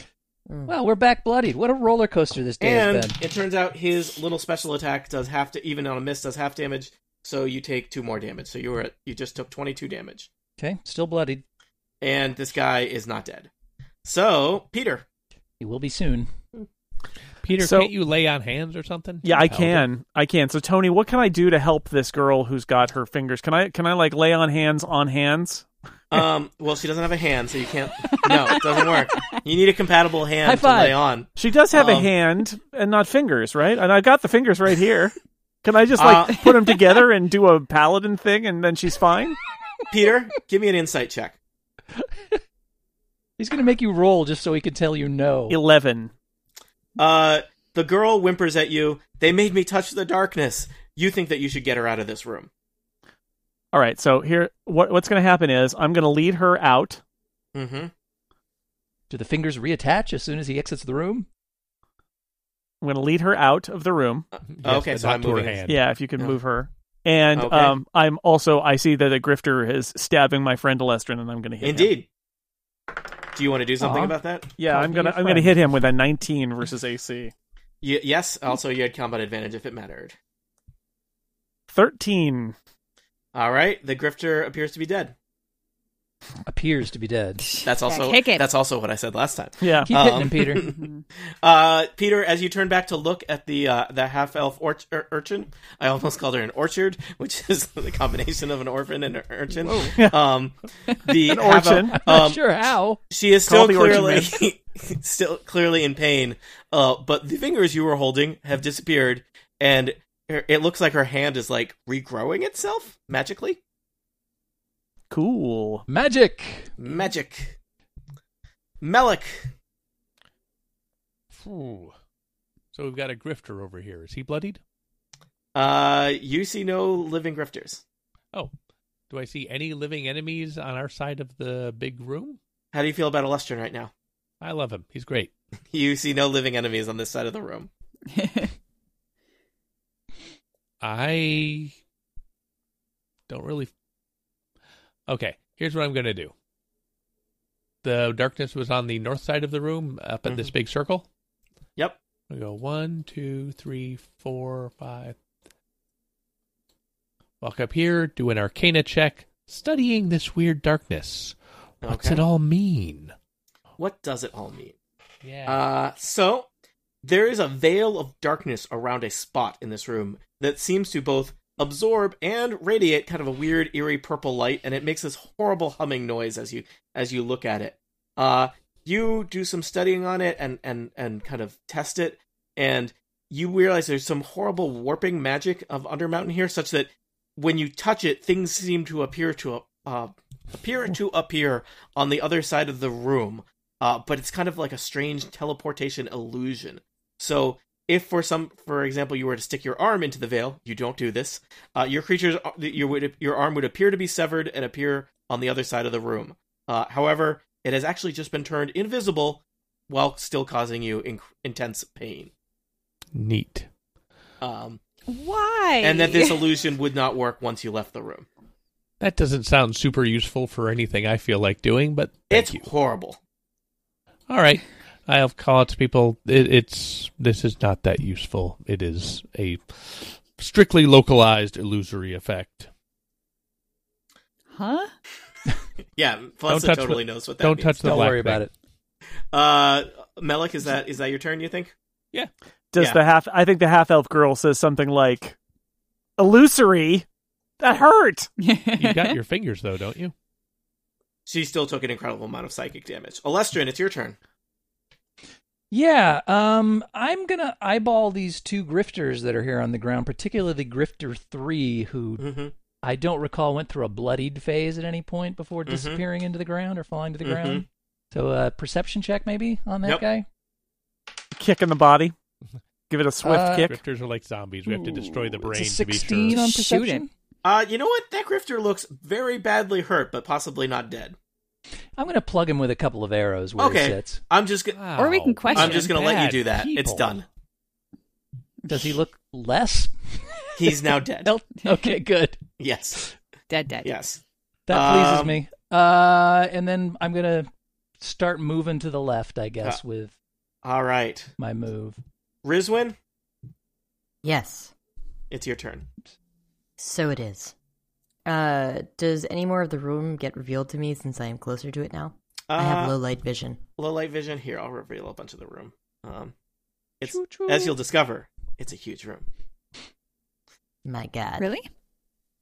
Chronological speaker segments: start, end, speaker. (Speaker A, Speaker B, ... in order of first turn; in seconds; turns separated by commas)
Speaker A: 0.5-0.8, Speaker B: 0.7-3.2, Speaker C: 2.6-10.3, Speaker B: 10.6-11.4, Speaker C: 12.0-13.5, Speaker C: 14.0-15.0, Speaker B: 15.6-16.3, Speaker D: 17.4-19.8, Speaker E: 17.6-17.9, Speaker E: 19.2-25.6, Speaker C: 26.1-32.1, Speaker F: 28.1-29.2, Speaker B: 30.4-31.0, Speaker E: 31.4-39.4, Speaker C: 35.9-36.5, Speaker C: 39.9-41.4, Speaker B: 42.0-42.4, Speaker B: 43.4-45.6, Speaker E: 45.5-46.1, Speaker C: 47.0-52.5, Speaker E: 53.7-57.0, Speaker C: 57.5-57.9, Speaker B: 59.1-61.3, Speaker E: 62.8-64.2, Speaker C: 64.3-65.6, Speaker D: 64.5-65.8, Speaker E: 65.7-71.9, Speaker C: 67.3-67.8, Speaker C: 71.6-72.0, Speaker C: 73.3-74.5, Speaker B: 73.8-74.1, Speaker E: 74.6-77.3, Speaker B: 74.7-75.5, Speaker C: 77.8-80.1, Speaker E: 81.7-82.5, Speaker C: 83.3-85.1, Speaker B: 86.5-87.4, Speaker F: 87.4-88.5, Speaker C: 87.6-90.8, Speaker E: 89.6-89.9, Speaker B: 89.9-90.7, Speaker F: 90.5-91.0, Speaker C: 91.4-113.6, Speaker F: 99.5-100.0, Speaker E: 101.2-102.0, Speaker B: 101.9-103.0, Speaker E: 103.5-104.4, Speaker E: 115.1-115.8, Speaker B: 115.9-116.7, Speaker C: 116.8-117.5, Speaker C: 118.8-119.5, Speaker D: 121.3-121.9, Speaker D: 122.7-124.6, Speaker C: 125.5-127.8, Speaker D: 129.1-132.4, Speaker C: 132.7-133.9, Speaker D: 134.4-135.3, Speaker C: 135.7-137.7, Speaker F: 138.1-138.5, Speaker D: 140.8-141.7, Speaker D: 143.3-143.7, Speaker D: 145.1-146.3, Speaker D: 147.8-151.0, Speaker C: 150.2-150.5, Speaker D: 152.3-155.2, Speaker D: 157.4-163.1, Speaker C: 161.8-162.2, Speaker C: 163.8-164.7, Speaker D: 165.2-165.6, Speaker C: 165.4-166.5, Speaker C: 167.0-212.3, Speaker D: 213.1-213.7, Speaker C: 214.4-214.8, Speaker F: 215.1-216.4, Speaker C: 215.8-218.3, Speaker D: 219.0-222.7, Speaker C: 222.3-223.2, Speaker D: 224.3-232.7, Speaker F: 234.5-234.9, Speaker C: 236.0-238.1, Speaker D: 236.5-238.4, Speaker B: 237.8-238.5, Speaker C: 239.3-241.7, Speaker E: 242.7-245.3, Speaker E: 246.2-247.0, Speaker E: 247.6-248.3, Speaker F: 248.4-249.2, Speaker D: 248.8-250.1, Speaker C: 251.2-254.2, Speaker B: 255.7-262.2, Speaker C: 262.2-262.5, Speaker B: 262.8-270.2, Speaker C: 265.6-266.0, Speaker C: 267.2-267.6, Speaker E: 271.3-272.1, Speaker E: 272.9-273.8, Speaker B: 273.2-273.7, Speaker D: 273.6-276.4, Speaker B: 274.6-277.1, Speaker F: 276.3-277.0, Speaker C: 277.4-281.1, Speaker B: 281.9-284.2, Speaker C: 283.6-284.8, Speaker D: 284.7-287.1, Speaker F: 284.9-286.3, Speaker C: 285.5-287.2, Speaker B: 288.7-290.2, Speaker C: 290.6-291.3, Speaker F: 291.2-292.0, Speaker B: 291.2-292.4, Speaker C: 292.6-293.1, Speaker F: 293.5-293.9, Speaker C: 293.8-295.4, Speaker B: 294.7-300.1, Speaker C: 300.6-301.3, Speaker B: 301.4-302.0, Speaker C: 302.4-302.9, Speaker A: 304.2-304.7, Speaker C: 305.3-305.9, Speaker A: 306.8-307.5, Speaker A: 308.2-313.6, Speaker C: 312.5-313.0, Speaker C: 313.8-316.3, Speaker C: 317.0-319.3, Speaker F: 317.1-317.7, Speaker A: 320.8-321.5, Speaker F: 321.4-321.7